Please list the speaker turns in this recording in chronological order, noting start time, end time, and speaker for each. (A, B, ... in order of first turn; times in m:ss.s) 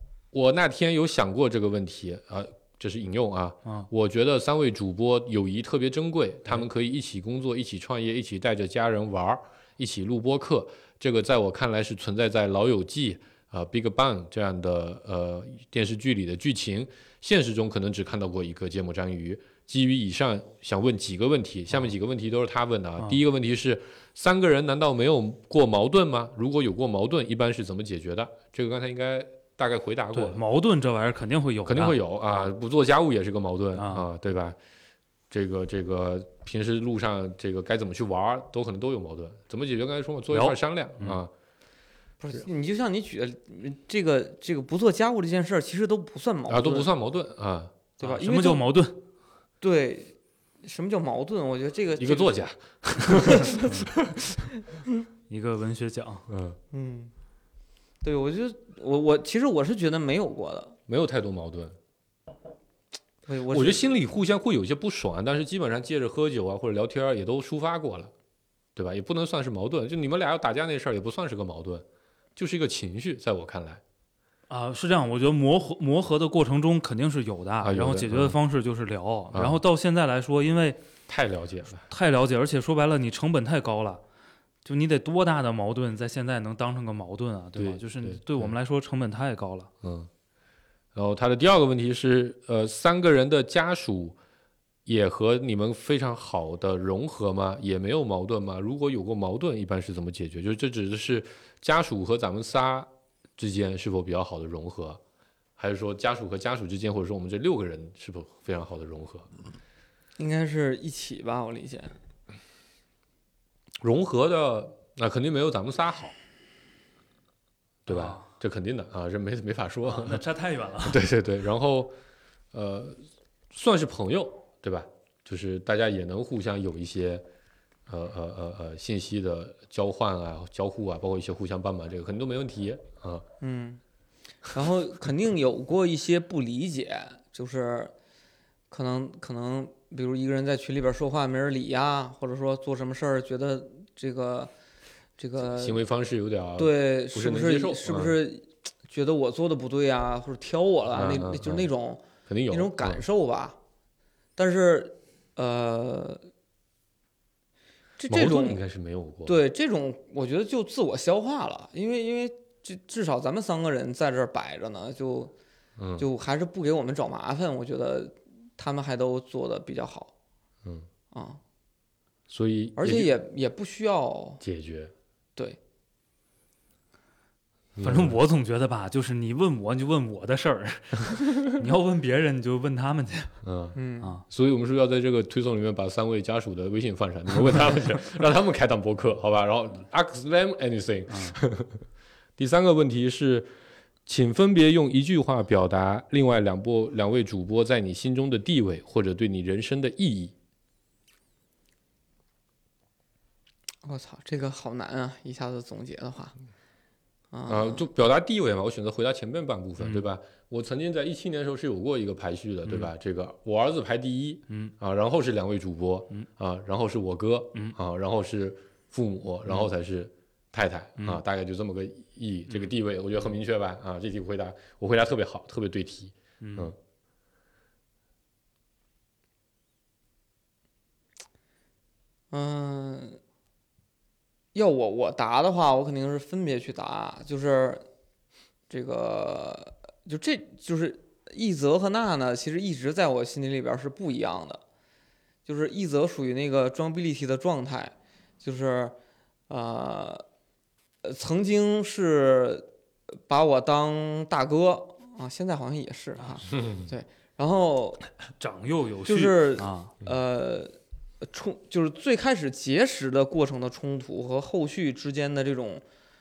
0:00.3-0:30.4 A
0:30.1-0:32.0 B
0:31.6-0:34.6 A
0:33.8-0:34.1 B
0:35.3-0:41.3 A
0:40.3-0:41.2 B
0:42.2-0:46.9 C
0:46.5-0:47.8 A
0:48.0-0:48.7 C
0:48.0-0:49.0 B
0:49.6-0:52.4 C
0:52.0-0:54.5 A
0:53.3-0:53.6 C
0:55.3-0:56.3 B
0:56.3-0:56.6 A
0:56.7-0:57.1 C
0:58.0-1:00.8 C
1:00.9-1:01.8 A
1:03.3-1:03.9 C
1:03.5-1:08.1 A
1:08.8-1:11.8 A
1:12.4-1:13.8 A
1:14.5-1:20.8 B
1:17.6-1:18.4 A
1:19.3-1:19.6 A
1:21.1-1:21.9 A
1:21.9-1:24.0 B
1:24.6-1:29.7 B
1:27.6-1:28.5 A
1:29.8-1:30.1 A
1:30.9-1:34.2 A
1:34.9-1:45.0 A
1:45.6-1:49.3 A
1:50.2-1:51.9 C
1:53.8-1:56.2 A
1:57.9-2:00.2 A
1:57.9-1:58.3 B
1:59.8-2:01.0 B
2:00.8-2:01.9 A
2:02.5-2:03.0 A
2:03.5-2:07.2 A
2:07.9-2:13.2 A
2:13.4-2:13.8 C
2:14.5-2:17.9 C
2:18.7-2:24.5 C
2:25.2-2:25.8 C
2:25.4-2:28.2 A
2:26.6-2:33.6 C
2:30.9-2:31.7 A
2:32.3-2:33.0 A
2:34.4-2:36.2 C
2:38.0-2:38.6 C
2:38.1-2:39.4 A
2:39.3-2:45.3 C
2:45.8-2:46.1 A
2:46.0-2:50.1 C
2:51.1-2:51.4 C
2:52.3-2:53.1 A
2:52.8-2:54.4 C
2:54.4-2:54.9 A
2:57.8-2:58.2 A
2:57.8-3:03.4 B
3:03.4-3:11.8 A
3:03.8-3:04.1 C
3:11.1-3:11.4 B
3:12.4-3:13.5 A
3:14.1-3:20.3 A
3:23.8-3:26.4 C
3:27.3-3:27.9 C
3:27.5-3:46.8 A
3:29.8-3:30.1 B
3:32.7-3:32.9 B
3:46.4-3:46.7 B
3:52.3-3:53.2 C
3:54.5-3:57.8 C
3:58.7-4:04.6 C
4:05.5-4:09.0 C
4:09.5-4:10.2 C
4:11.0-4:12.7 C
4:13.2-4:18.0 C
4:16.5-4:16.8 A
4:18.4-4:19.9 B
4:19.1-4:25.8 C